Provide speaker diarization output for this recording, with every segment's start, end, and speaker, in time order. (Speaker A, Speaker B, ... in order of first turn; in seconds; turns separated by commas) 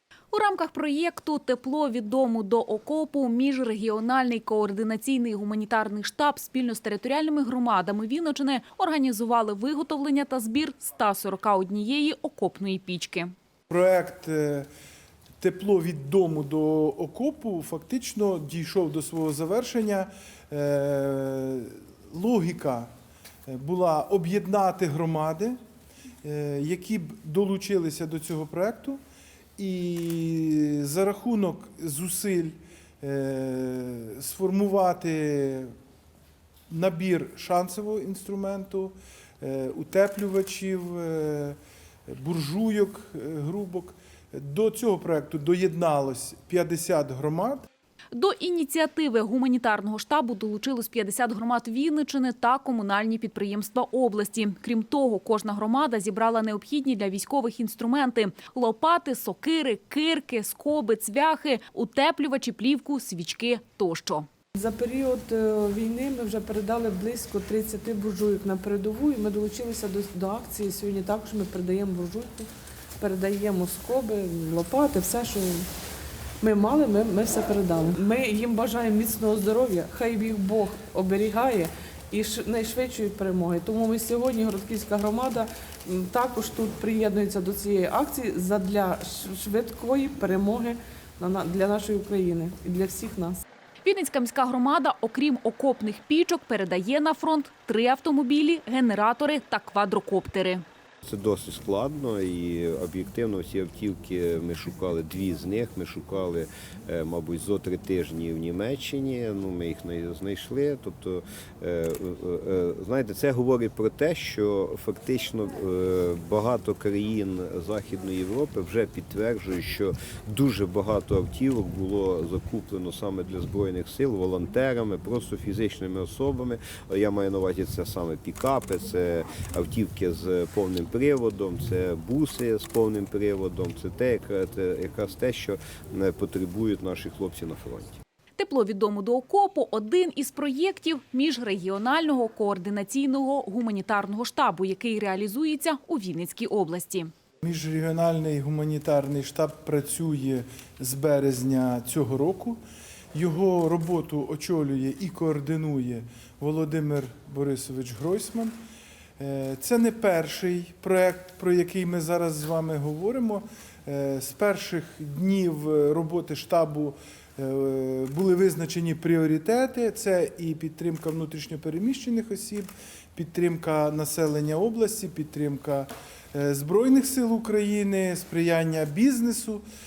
Speaker A: 0.3-13.3, Speaker B: 13.7-14.7, Speaker B: 15.4-22.9, Speaker B: 23.5-25.6, Speaker B: 26.2-29.0, Speaker B: 29.6-35.7, Speaker B: 36.7-41.6, Speaker B: 42.1-47.7, Speaker A: 48.1-64.3, Speaker C: 64.6-75.7, Speaker C: 76.4-93.4, Speaker A: 93.8-100.6, Speaker D: 101.0-138.0, Speaker A: 138.4-147.1, Speaker B: 147.4-152.6, Speaker B: 153.1-158.6, Speaker B: 159.2-179.6